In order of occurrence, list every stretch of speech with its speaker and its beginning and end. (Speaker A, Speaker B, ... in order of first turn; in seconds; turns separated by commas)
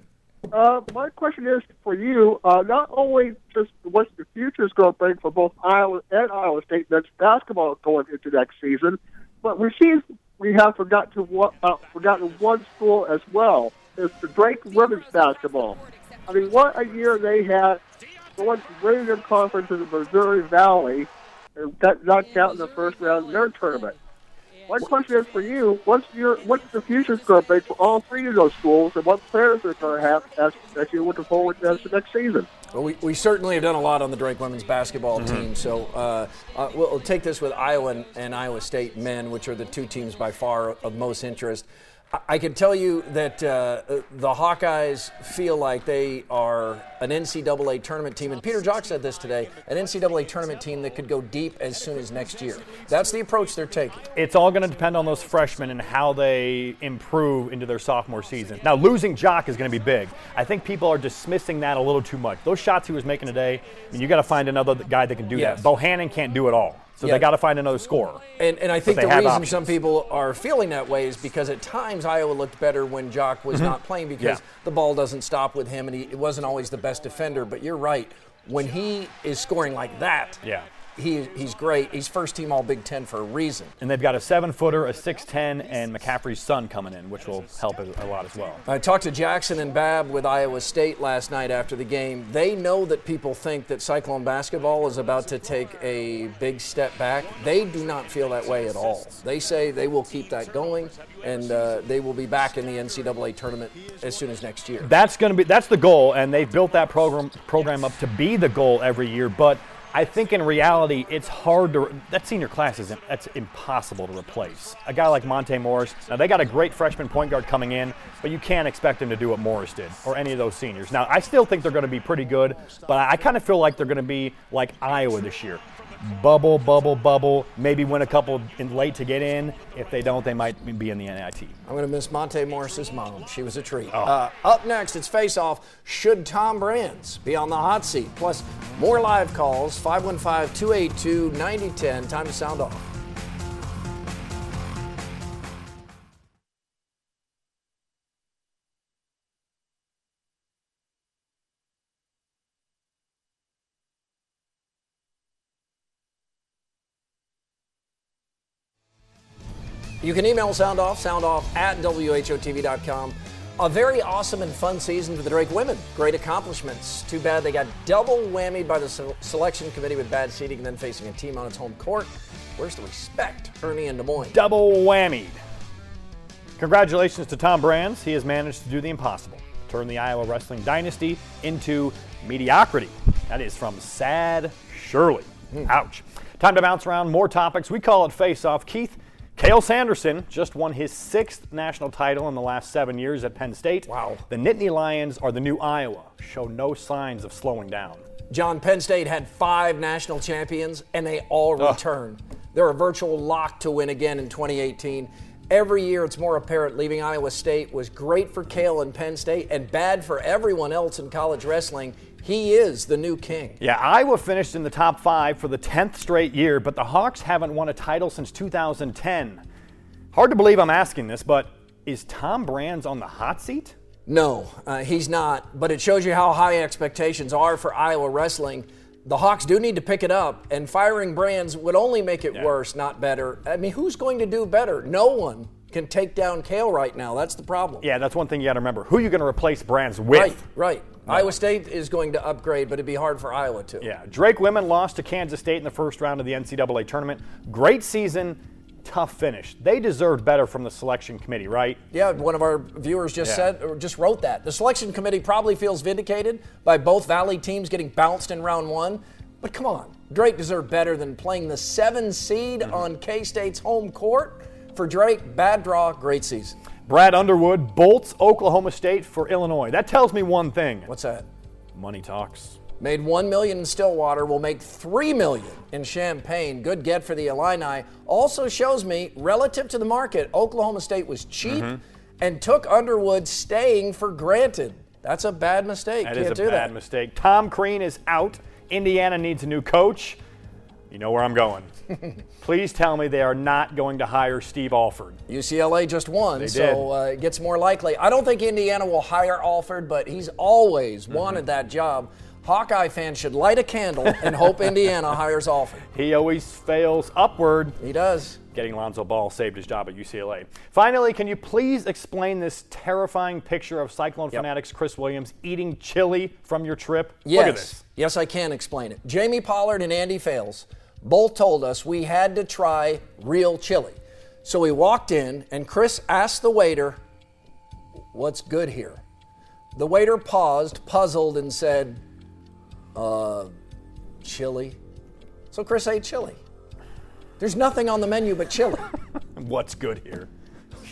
Speaker A: 0.5-17.8, Speaker A: 18.4-23.9, Speaker A: 24.7-32.5, Speaker B: 32.7-54.1, Speaker C: 35.1-35.5, Speaker C: 54.1-68.2, Speaker B: 65.3-65.7, Speaker B: 67.0-67.3, Speaker B: 68.4-80.4, Speaker C: 68.8-69.6, Speaker C: 73.5-74.4, Speaker C: 80.4-80.7, Speaker B: 81.0-83.7, Speaker C: 83.8-88.6, Speaker B: 88.6-104.9, Speaker C: 104.8-131.5, Speaker B: 131.6-142.9, Speaker B: 160.0-174.4, Speaker C: 174.3-175.4, Speaker C: 176.6-198.0, Speaker B: 193.9-194.2, Speaker B: 198.3-213.6, Speaker C: 213.6-219.4, Speaker C: 220.1-223.7, Speaker B: 224.1-237.8, Speaker C: 237.8-240.4, Speaker B: 240.1-243.9, Speaker C: 241.1-241.3, Speaker C: 243.8-251.8, Speaker B: 251.9-266.6, Speaker C: 266.9-270.9, Speaker B: 270.9-271.2, Speaker C: 271.7-272.6, Speaker B: 272.8-286.7, Speaker C: 281.4-281.8, Speaker C: 286.0-290.2, Speaker C: 290.9-291.7, Speaker C: 292.4-295.2, Speaker B: 295.3-305.9, Speaker C: 296.4-296.9, Speaker C: 305.9-307.8, Speaker B: 307.8-308.4, Speaker C: 308.5-317.8, Speaker B: 317.2-327.0, Speaker B: 328.1-329.0, Speaker B: 329.7-332.0, Speaker B: 332.9-333.5, Speaker B: 334.2-334.8, Speaker B: 335.5-336.4, Speaker B: 337.4-338.9, Speaker C: 339.3-340.3